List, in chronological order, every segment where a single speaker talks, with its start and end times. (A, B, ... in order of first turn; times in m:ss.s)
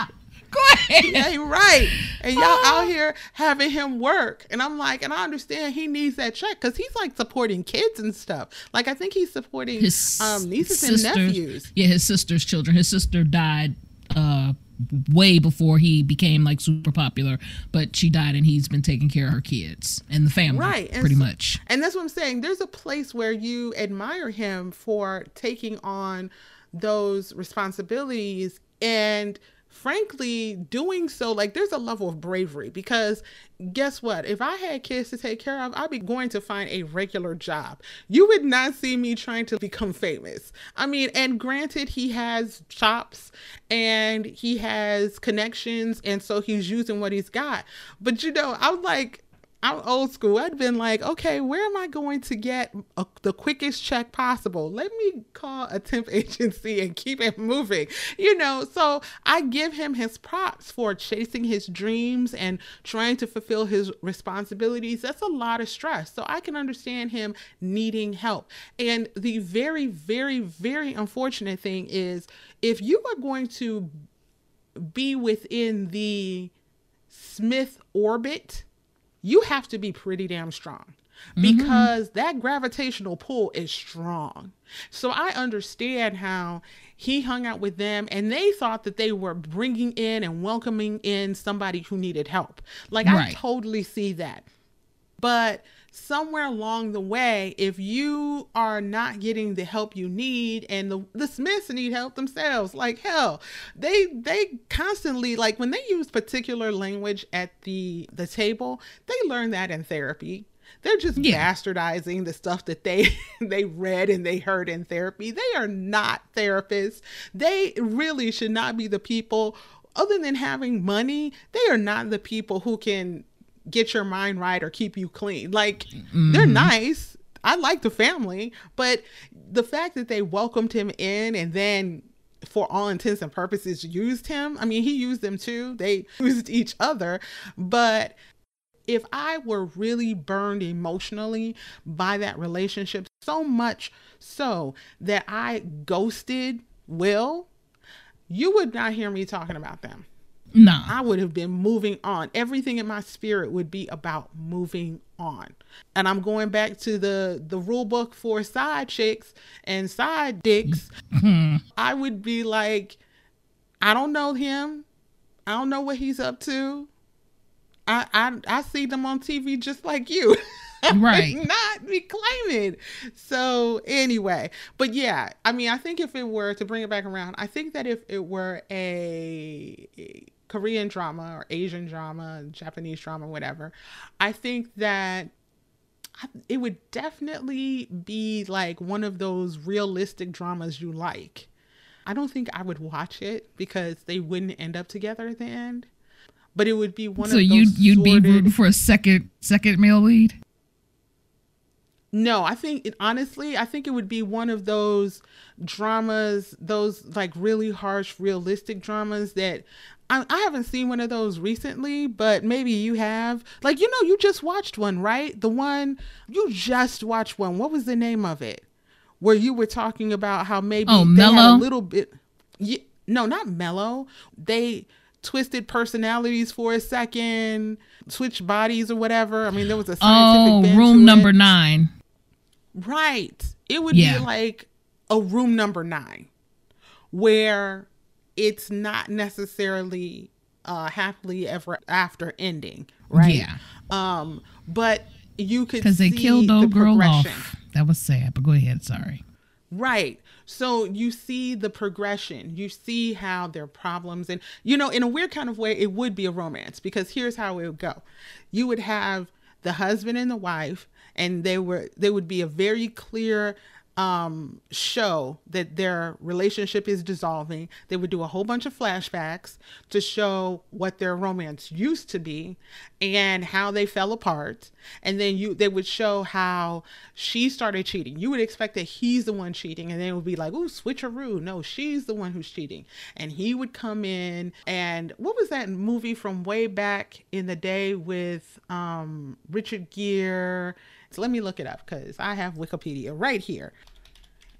0:00.5-0:01.2 A
0:01.0-0:11.7 B
0:01.9-0:02.9 A
0:09.8-0:21.6 A
0:20.5-1:13.9 B
1:14.8-1:16.5 B
1:17.1-1:18.6 B
1:19.2-1:34.4 B
1:21.4-1:21.9 A
1:33.0-1:33.4 A
1:35.2-2:18.2 B
1:51.2-1:51.4 A
2:06.1-2:06.7 A
2:18.9-2:27.5 B
2:28.3-2:30.1 B
2:30.5-2:30.9 A
2:30.9-2:40.9 B
2:40.7-2:41.6 A
2:41.8-2:43.0 B
2:43.8-2:44.8 B
2:45.5-2:46.9 B
2:47.9-3:05.3 B
2:50.9-2:51.4 A
3:06.2-3:11.5 B
3:12.0-3:15.9 B
3:16.5-3:18.5 B
3:17.2-3:20.4 A
3:22.1-3:38.6 B
3:39.2-3:51.5 B
3:40.9-3:41.6 A
3:50.0-3:51.9 A
3:52.8-3:56.3 B
3:53.9-3:54.3 A
3:57.1-4:07.5 B
4:03.1-4:03.6 A
4:05.8-4:09.2 A
4:09.7-4:53.7 B